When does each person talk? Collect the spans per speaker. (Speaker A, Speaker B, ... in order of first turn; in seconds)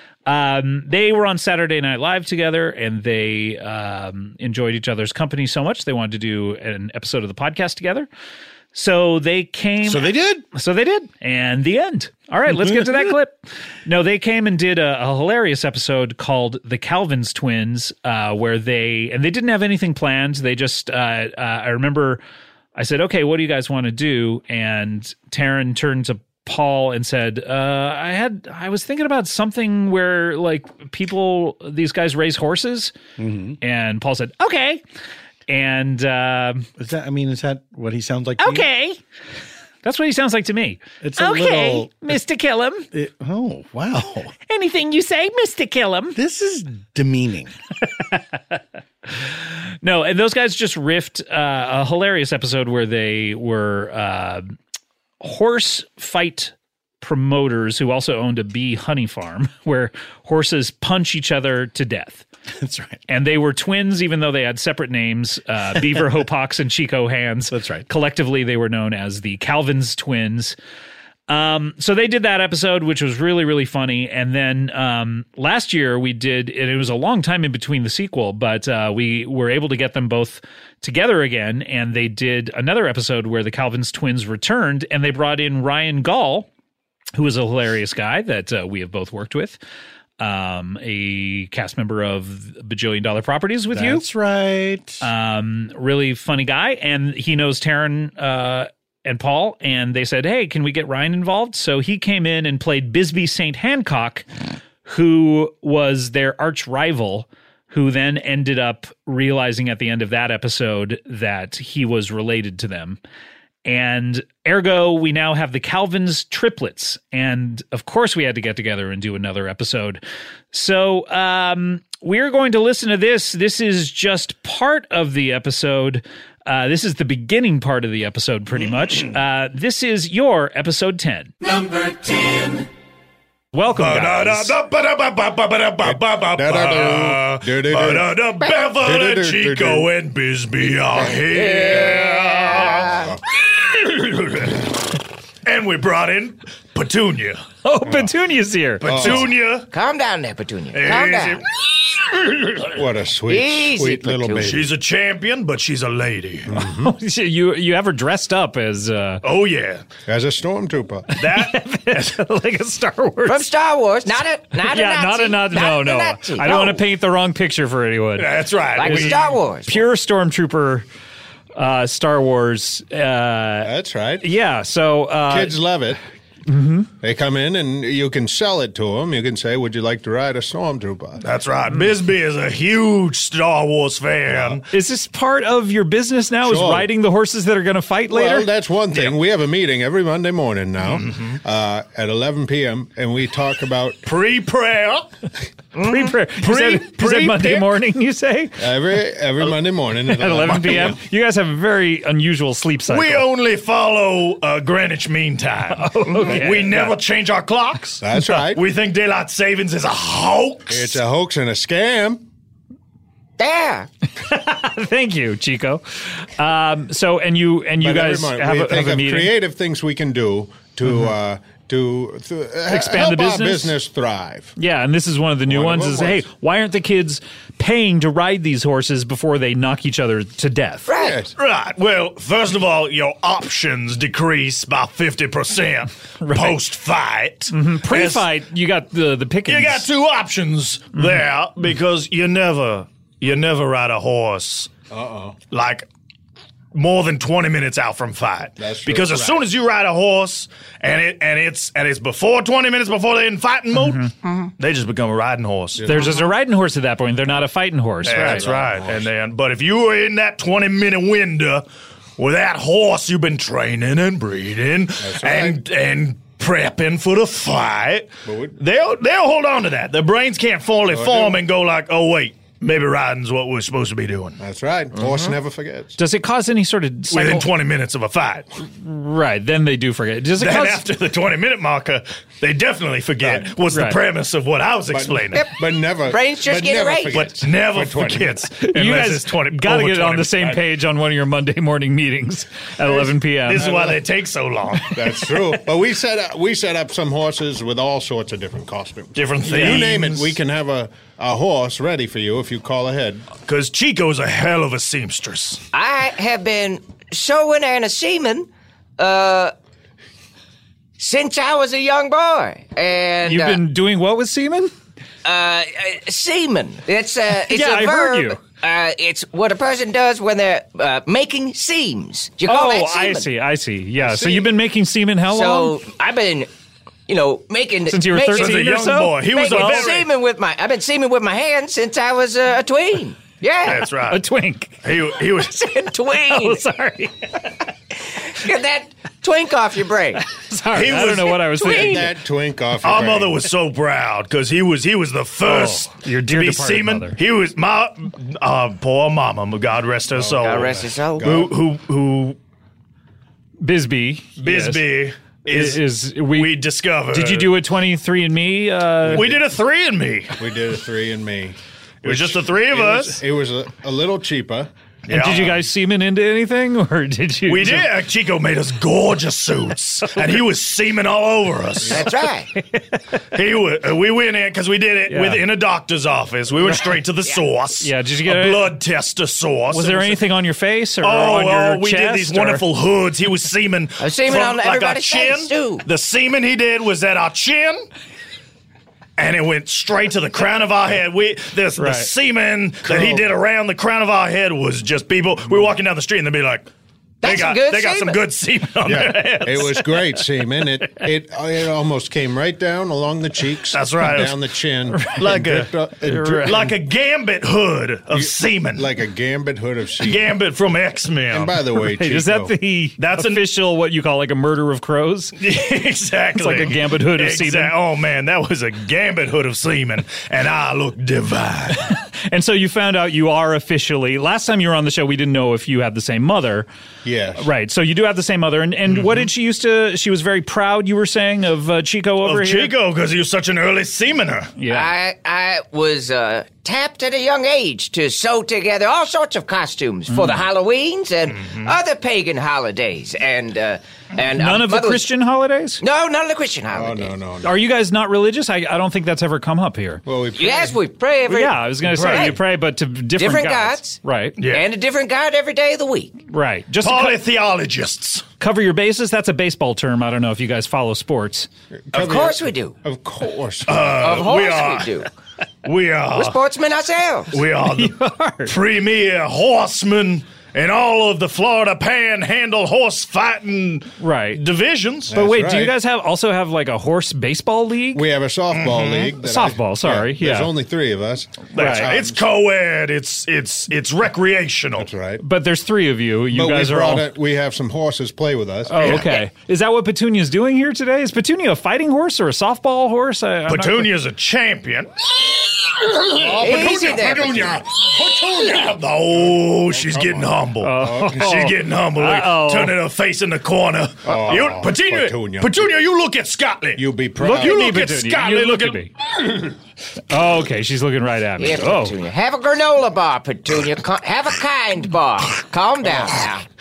Speaker A: 0.2-8.1, 8.7-22.2, 22.8-33.0, 33.6-34.8, 35.5-36.7, 38.4-39.0, 39.8-42.9, 44.5-46.2, 47.9-48.6, 49.2-54.5, 55.2-62.2, 63.1-70.5, 71.3-86.5, 87.1-89.6, 90.2-94.0, 95.0-104.3, 104.8-113.0, 113.6-120.0, 120.5-131.3, 133.5-134.6, 147.6-149.2, 156.6-159.2, 161.2-163.4, 164.6-170.8, 171.6-175.6, 176.5-176.9, 184.7-188.5, 195.8-198.6, 200.1-203.3, 205.7-206.9, 214.2-219.3, 222.7-223.7, 224.6-230.9, 236.2-236.6, 237.5-239.9, 253.8-254.1, 255.8-258.5, 276.0-277.5, 278.6-280.9, 283.7-284.0, 288.6-293.7, 294.8-295.4, 313.2-314.7, 317.5-318.4, 322.4-325.7, 327.9-329.9, 334.1-334.8, 336.2-337.4, 340.2-342.1, 345.4-347.2, 353.6-354.8, 355.4-359.3, 365.1-367.9, 372.5-372.9, 375.1-375.4, 376.6-376.9, 377.8-378.8, 379.7-382.6, 391.8-392.1, 406.1-406.6, 411.8-415.4, 416.3-417.8, 421.8-426.7, 427.4-432.7, 434.6-434.9, 440.1-440.4, 444.3-445.8, 447.4-450.0, 451.3-454.4, 456.3-457.2, 458.4-461.5, 467.7-468.5, 474.0-474.4, 475.1-478.0, 479.2-480.5, 481.6-481.9, 485.2-487.1, 488.7-493.9, 500.6-502.8, 507.2-508.9, 510.1-511.9
Speaker B: 9.8-10.4, 12.5-13.2, 33.2-33.6, 36.8-38.7, 41.0-42.2, 42.9-44.3, 46.1-47.5, 62.5-63.0, 67.5-67.9, 93.7-95.0
Speaker C: 133.8-144.7, 145.4-147.4, 148.8-149.7, 150.7-151.4, 154.4-156.5, 159.2-159.8, 161.2-162.1, 168.2-169.4, 181.2-184.6, 190.8-191.4, 194.1-195.1, 196.4-197.7, 200.3-200.9, 202.9-211.0, 231.3-238.2, 239.4-244.7, 245.5-245.9, 246.7-254.0, 254.6-255.8, 258.0-261.6, 262.2-274.4, 277.1-278.4, 280.4-285.4, 287.1-290.6, 293.4-294.9, 299.1-300.4, 303.4-305.6, 328.3-330.1, 333.6-334.2, 334.8-335.7, 340.7-341.4, 342.8-352.4, 354.4-357.5, 359.1-360.4, 362.0-363.2, 365.1-365.6, 367.5-372.1, 373.3-380.2, 381.0-387.9, 389.2-396.7, 397.2-399.8, 403.7-404.4, 405.1-405.7, 406.4-408.9, 410.0-411.6, 413.0-413.4, 415.4-421.9, 432.2-434.5, 441.4-441.7, 451.8-452.3, 454.4-454.7, 456.8-458.2, 463.6-465.0, 465.6-466.4, 467.3-475.1, 478.5-479.1, 481.5-484.9, 493.5-494.9, 495.6-508.8
Speaker D: 135.8-139.9, 148.8-149.3, 152.7-154.7, 156.5-156.9, 160.1-161.1, 173.6-174.2, 175.3-176.0, 177.0-181.2, 184.3-184.6, 186.4-186.9, 188.1-194.0, 198.6-201.0, 208.0-208.6, 210.7-212.2, 217.8-224.5, 225.5-226.2, 230.9-231.3, 244.9-245.4, 248.6-249.5, 255.8-256.2, 258.1-259.1, 265.0-265.6, 268.2-268.6, 270.9-271.4, 274.4-276.0, 283.2-283.5, 284.9-288.5, 293.6-294.0, 294.9-303.3, 324.0-324.5, 341.6-343.5, 350.2-351.6, 359.1-359.6, 360.4-364.7, 392.9-393.3, 398.8-406.8, 408.1-410.3, 411.3-412.5, 427.0-427.5, 446.7-447.6, 450.1-450.8, 461.9-464.1, 475.1-475.7, 477.9-482.3, 484.8-485.2, 486.3-489.1, 496.1-498.6, 499.1-501.4, 504.1-505.7, 506.8-507.8
Speaker E: 141.2-143.1, 149.7-151.4, 153.3-154.5, 163.2-166.8, 168.7-169.8, 213.4-213.9, 230.8-231.2, 286.0-287.3, 305.7-309.5, 311.0-313.6, 315.2-323.3, 325.3-326.5, 327.1-333.9, 335.3-336.6, 338.0-340.2, 341.4-342.1, 350.4-351.3, 371.9-372.5, 384.0-385.8, 397.2-398.2, 434.7-445.1, 445.8-447.1, 450.4-452.4, 453.1-454.0, 454.5-456.1, 461.9-462.8, 464.0-465.1, 466.1-467.4, 496.4-497.5, 511.4-516.4